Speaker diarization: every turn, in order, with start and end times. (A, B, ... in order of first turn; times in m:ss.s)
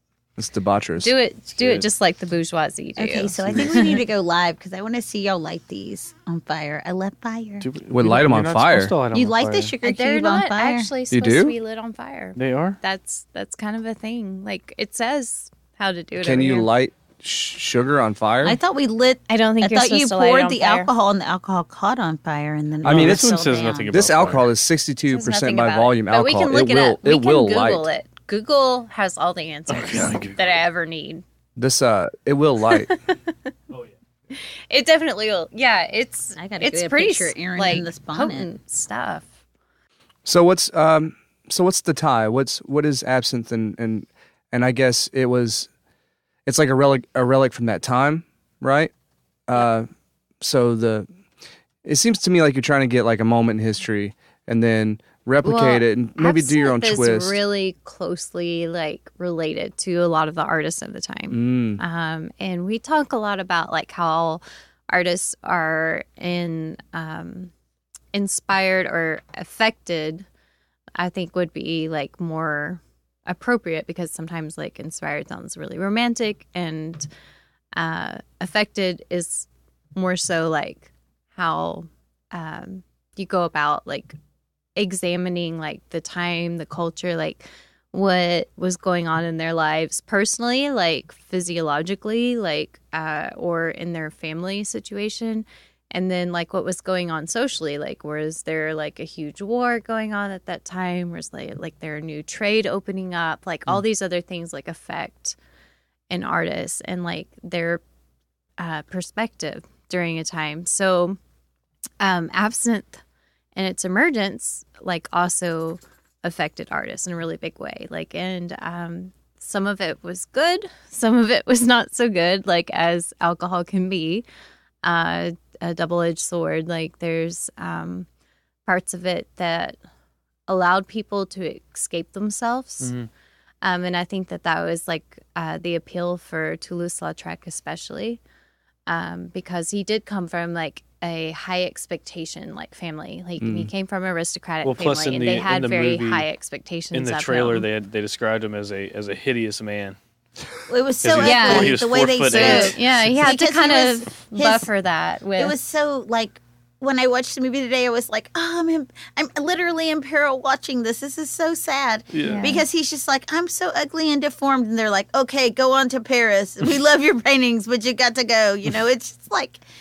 0:00.4-0:01.1 A
0:01.0-0:04.0 B
0:03.0-0:07.7 C
0:03.4-0:04.0 D
0:07.6-0:09.7 D
0:07.9-0:08.9 A
0:09.1-0:10.9 C
0:09.8-0:16.7 B
0:11.1-0:11.5 A
0:12.4-0:12.8 D
0:16.2-0:18.6 A
0:18.4-0:24.0 C
0:19.3-0:20.9 B
0:22.8-0:24.5 D
0:22.8-0:23.3 A
0:23.9-0:27.9 A
0:25.1-0:31.2 B
0:29.7-0:30.6 D
0:31.6-0:32.9 A
0:32.7-0:33.2 B
0:34.3-0:39.3 B
0:36.4-0:38.5 C
0:40.2-0:45.7 A
0:46.4-0:48.9 A
0:49.5-0:49.9 A
0:50.4-0:51.1 A
0:51.8-0:57.4 A
0:55.4-1:07.5 B
1:01.3-1:01.8 A
1:08.1-1:10.2 B
1:11.0-1:17.1 B
1:17.8-1:24.2 B
1:24.8-1:45.4 B
1:46.1-1:47.8 B
1:48.6-1:51.2 B
1:52.0-1:53.0 B
1:53.5-2:04.2 B
2:04.8-2:08.1 B
2:08.6-2:09.8 B
2:10.5-2:12.9 B
2:12.8-2:13.1 D
2:13.6-2:18.2 B
2:18.9-2:27.7 B
2:23.4-2:23.7 A
2:24.6-2:26.3 D
2:26.9-2:30.0 D
2:30.7-2:34.7 C
2:31.0-2:33.3 D
2:31.2-2:35.5 B
2:35.4-2:49.6 C
2:42.1-2:42.5 D
2:42.2-2:42.6 B